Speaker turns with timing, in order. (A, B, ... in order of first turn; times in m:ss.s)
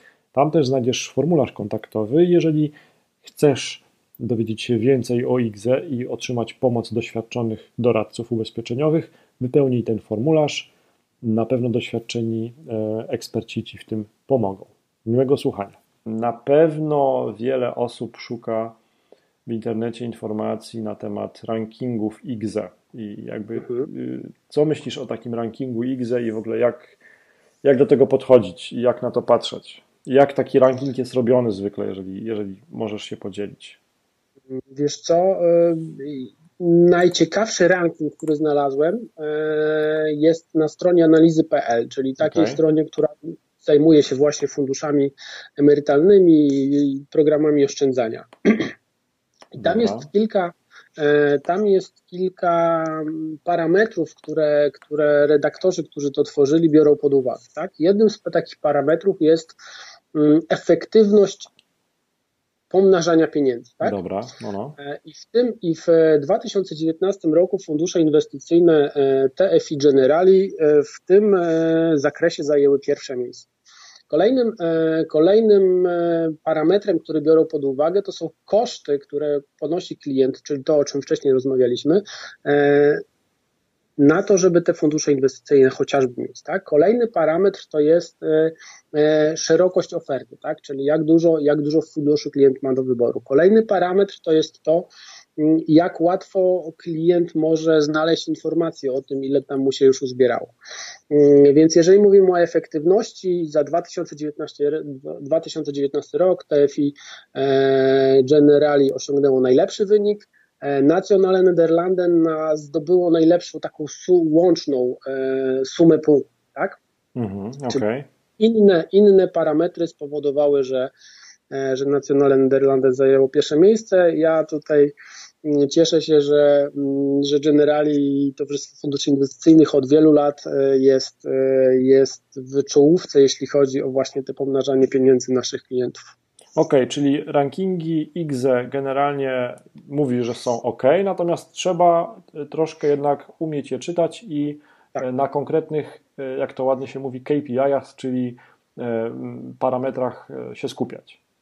0:00.3-0:10.7 A
0:11.2-0:18.8 A
0:19.4-0:27.0 A
0:23.6-0:23.9 B
0:27.6-0:33.8 A
0:34.7-0:48.7 B
0:42.2-0:42.6 A
0:49.5-0:59.6 B
0:49.6-0:50.1 A
1:00.1-1:01.5 B
1:02.7-1:04.0 B
1:03.8-1:04.8 A
1:04.8-1:13.5 B
1:14.1-1:23.0 B
1:24.0-1:40.5 B
1:41.1-1:56.8 B
1:57.2-1:58.1 A
1:58.4-2:00.9 B
2:01.5-2:16.0 B
2:16.6-2:31.2 A